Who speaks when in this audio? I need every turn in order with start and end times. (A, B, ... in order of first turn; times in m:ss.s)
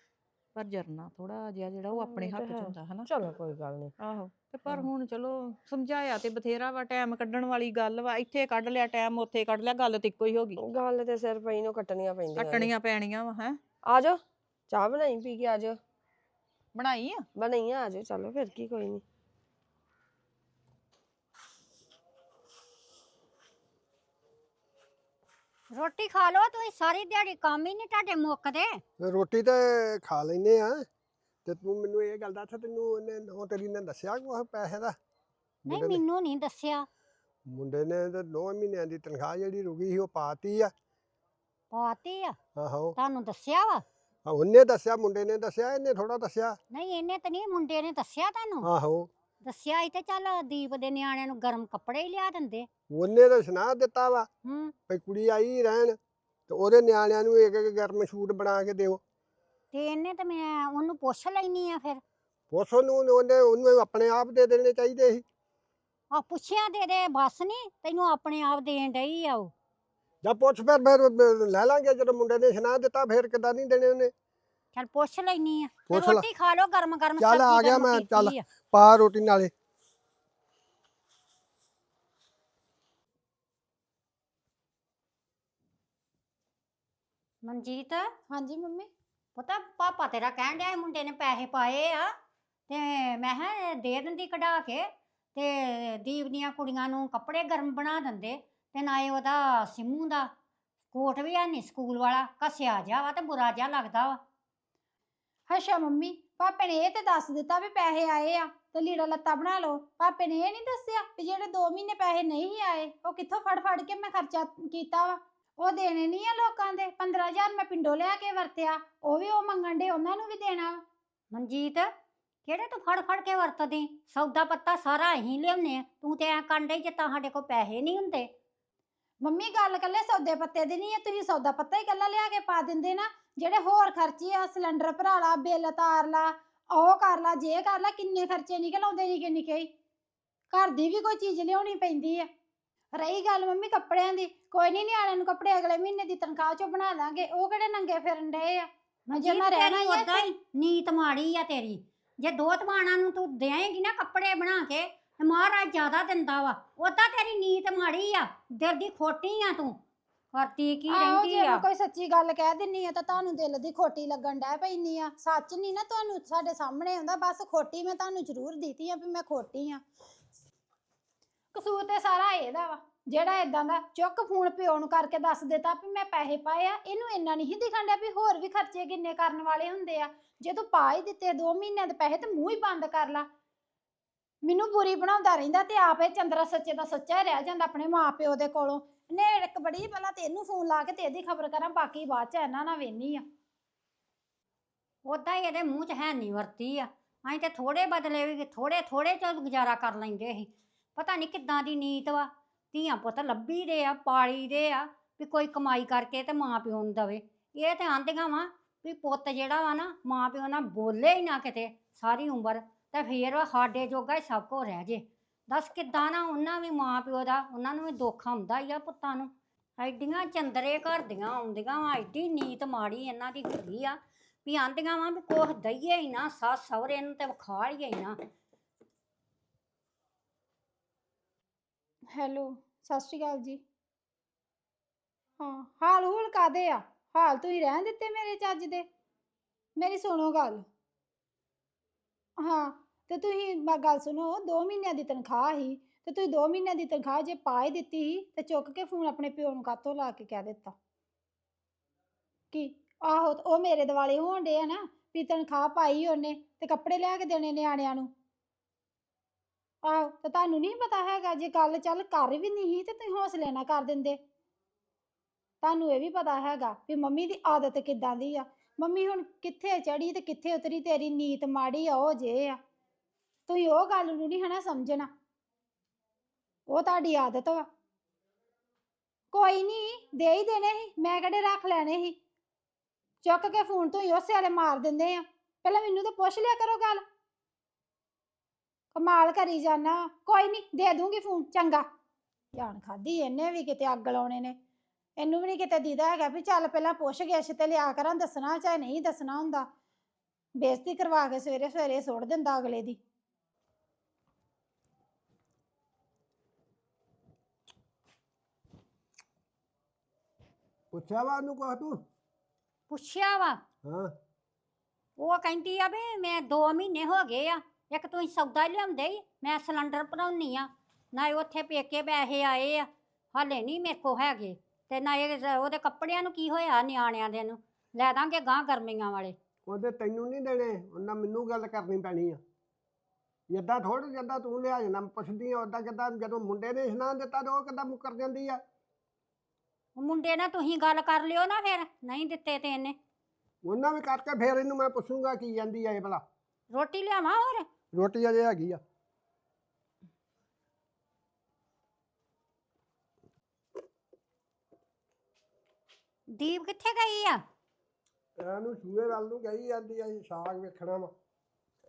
0:00.5-0:03.1 A
0:01.9-0:03.9 B
0:04.0-0:10.6 A
0:10.6-0:12.7 B
0:12.4-0:13.6 A
0:13.9-0:15.8 B
0:16.7-0:17.2 A
0:17.4-0:19.0 B
0:25.7-0:28.8 C
0:29.0-0:30.8 D
0:31.4-0:34.9 D
0:35.7-0:36.0 D
0:35.7-0:36.9 C
0:37.5-0:40.7 D
0:41.7-0:42.4 C
0:42.6-0:42.9 D
0:43.0-0:43.8 C
0:44.2-0:46.6 D
0:46.7-0:48.7 C
0:48.6-0:49.1 D
0:49.4-0:52.7 C
0:52.9-0:54.3 D
0:54.4-0:54.7 C
0:54.9-0:56.0 D
0:56.5-0:59.0 D
0:59.7-1:02.0 C
1:02.5-1:05.2 D
1:06.1-1:09.5 C
1:10.2-1:14.1 D
1:14.7-1:18.4 C
1:15.9-1:16.2 D
1:17.2-1:19.5 D
1:27.4-1:28.1 C
1:28.3-1:28.9 E
1:29.4-1:32.1 C
1:32.7-1:40.3 C
1:40.9-1:44.2 C
1:45.5-2:00.8 E
2:01.3-2:01.9 C
2:02.4-2:08.3 C
2:09.2-2:19.7 E
2:20.5-2:22.3 E
2:22.9-2:30.2 E
2:29.1-2:39.8 C
2:40.3-2:41.6 C
2:40.9-2:49.8 E
2:51.5-3:03.3 E
3:04.4-3:13.2 E
3:15.0-3:48.2 C
3:52.1-3:53.6 E
3:55.4-3:58.8 E
3:59.8-4:00.6 E
4:02.4-4:10.7 E
4:12.5-4:18.1 E
4:19.8-4:24.2 E
4:25.6-4:32.6 E
4:33.5-4:35.1 E
4:36.7-4:37.7 E
4:39.3-4:42.2 E
4:43.2-4:47.0 E
4:48.9-4:51.8 E
4:52.5-4:54.6 E
4:55.2-4:59.7 E
5:00.5-5:03.0 E
5:10.9-5:12.0 D
5:12.9-5:13.6 C
5:13.8-5:14.1 D
5:15.2-5:29.3 C
5:29.6-5:32.4 D
5:33.5-5:38.6 D
5:40.0-5:43.0 C
5:43.6-5:46.2 D
5:46.7-5:47.6 C
5:47.9-5:48.8 D
5:56.3-5:57.4 C
5:58.4-6:01.1 D